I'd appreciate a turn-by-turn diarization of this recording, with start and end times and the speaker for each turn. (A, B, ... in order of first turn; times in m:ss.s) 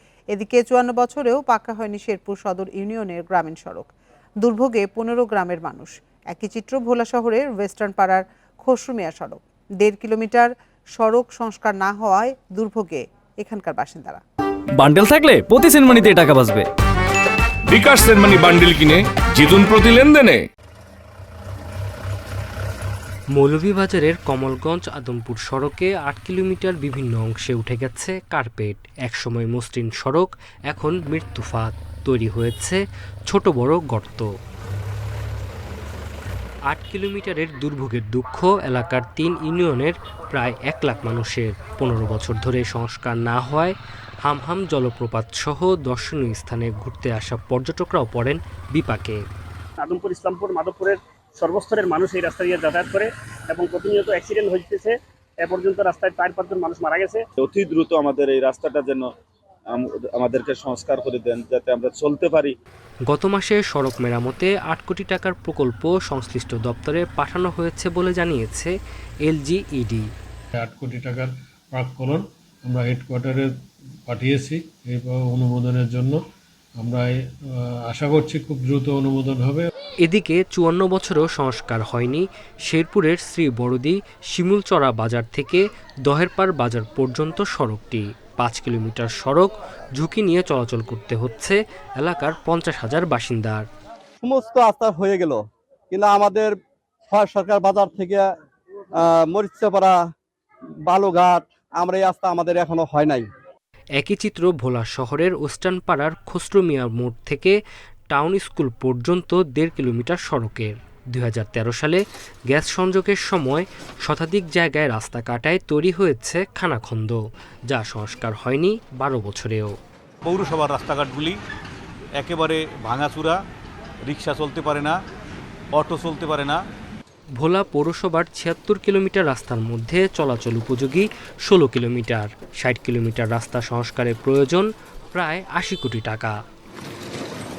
0:00.3-0:03.9 A
0:04.4-0:14.2 A
0:14.7-0:16.7 B
0:17.7-0:20.4 C
0:23.4-0:34.3 D
0:36.7-0:49.2 D
0:49.8-0:57.2 E
0:57.4-0:59.0 F
0:59.7-1:02.5 F
1:03.1-1:08.7 D
1:09.2-1:10.0 D
1:10.7-1:11.3 G
1:11.8-1:13.5 G
1:14.1-1:16.2 G
1:17.9-1:19.6 G
1:20.0-1:33.6 D
1:34.2-1:35.4 H
1:35.9-1:36.5 H
1:37.1-1:38.2 H
1:39.0-1:40.0 H
1:40.8-1:43.3 H
1:44.0-1:47.6 D
1:48.1-1:59.7 D
2:00.3-2:01.3 I
2:02.2-2:03.4 I
2:04.1-2:04.9 I
2:05.8-2:06.6 I
2:07.4-2:16.3 D